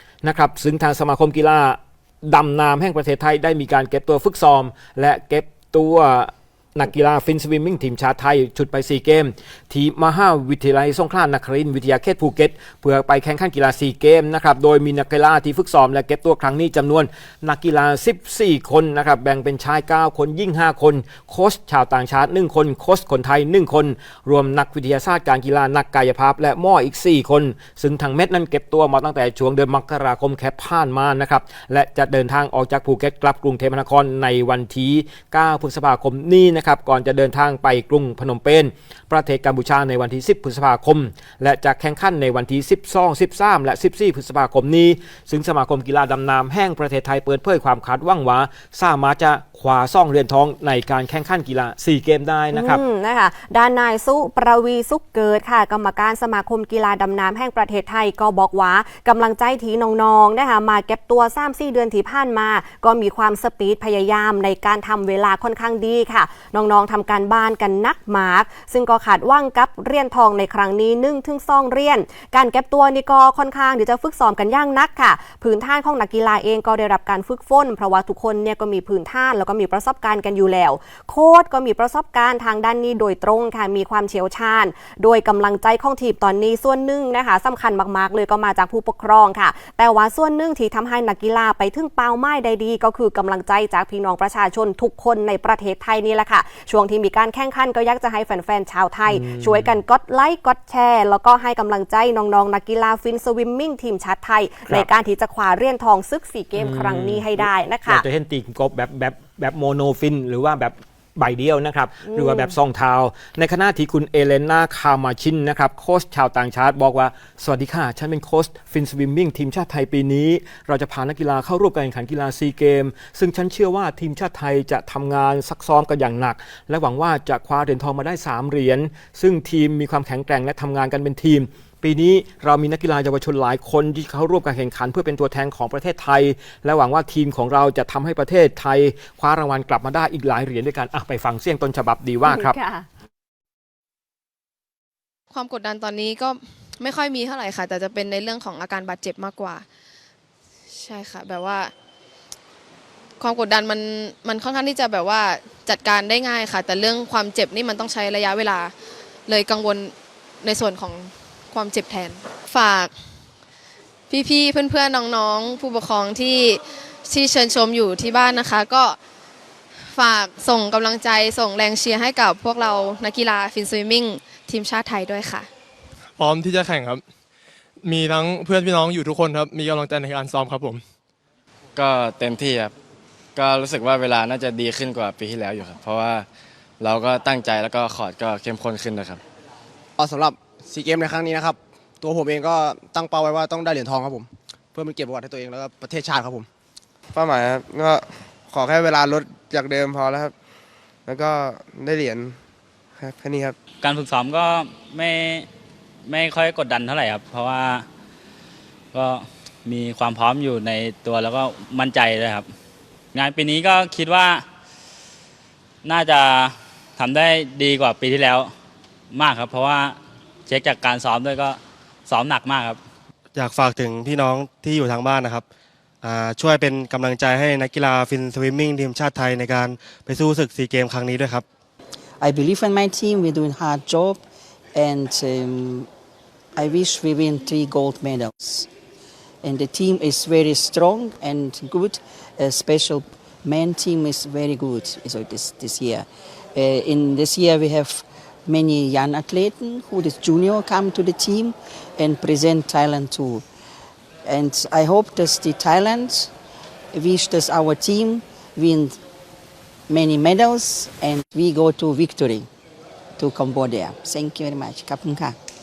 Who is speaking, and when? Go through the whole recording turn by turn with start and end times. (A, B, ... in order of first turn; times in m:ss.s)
0:00.2-0:52.8 A
0:52.5-1:48.0 B
1:39.1-1:39.8 A
1:46.6-2:22.6 A
1:52.1-1:52.5 B
2:22.2-2:22.9 B
2:25.3-2:29.6 C
2:30.7-2:31.7 C
2:33.2-2:38.7 C
2:39.3-2:42.9 C
2:44.1-2:49.0 C
2:49.9-2:55.5 C
2:56.2-2:57.0 D
2:57.8-3:00.8 D
3:01.8-3:02.5 E
3:03.4-3:06.2 E
3:06.8-3:08.6 E
3:10.0-3:16.5 F
3:17.1-3:20.3 G
3:21.0-3:22.4 G
3:23.0-3:23.6 G
3:23.8-3:25.5 H
3:26.0-3:27.8 H
3:28.9-3:32.5 H
3:33.1-3:34.4 H
3:35.8-3:38.5 H
3:39.1-3:40.0 H
3:40.5-3:42.8 H
3:43.3-3:45.4 I
3:46.0-3:51.4 I
3:52.2-3:54.2 J
3:54.7-3:55.9 J
3:56.6-3:58.7 J
3:59.4-4:13.4 J
4:14.2-4:16.3 J
4:16.9-4:19.0 J
4:19.9-4:22.5 J
4:23.2-4:25.4 J